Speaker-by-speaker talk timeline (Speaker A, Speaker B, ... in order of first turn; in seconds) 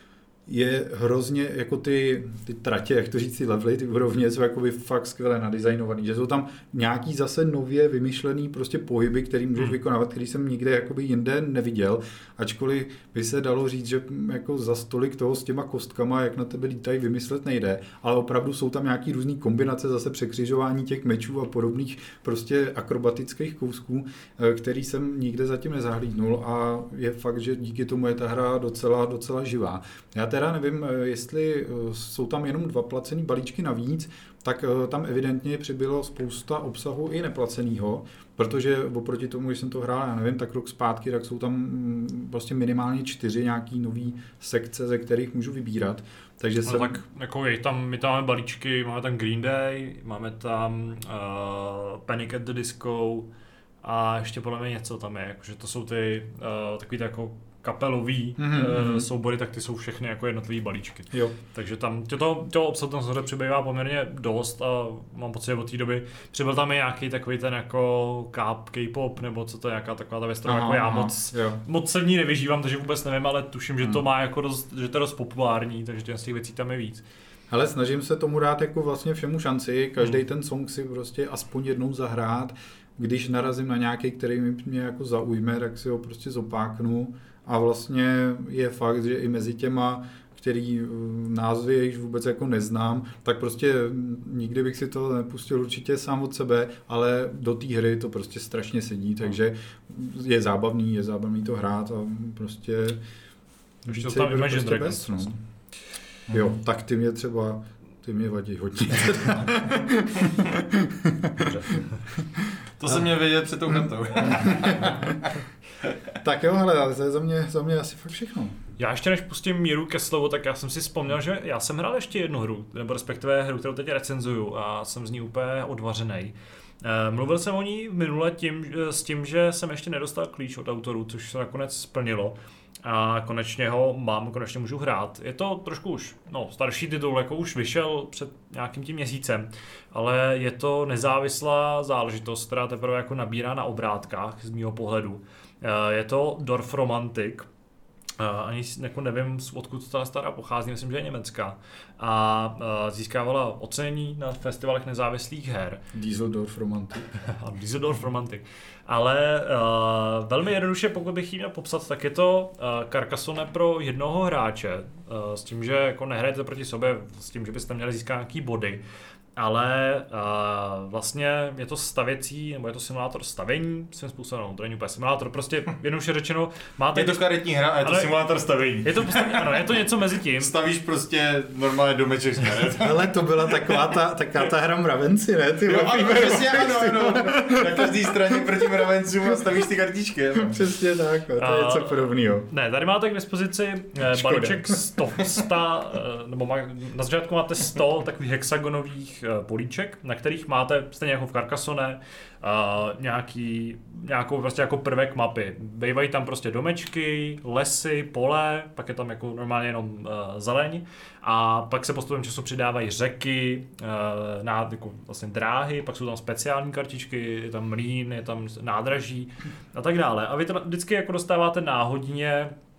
Speaker A: 0.5-47.0, 58.4-59.0, 70.5-71.6, 77.5-103.0, 103.8-105.4, 106.3-113.0, 114.2-115.2, 116.2-118.6, 155.9-157.1, 182.7-189.4, 190.3-192.5, 194.1-195.4
Speaker B: 46.6-53.3, 53.8-77.0, 103.9-105.3, 111.4-111.8, 118.8-147.5, 148.2-155.8, 157.2-168.8, 169.4-177.3, 177.8-178.1, 178.8-180.5, 191.3-222.5
Speaker C: 112.8-115.3, 176.9-183.1, 185.7-190.6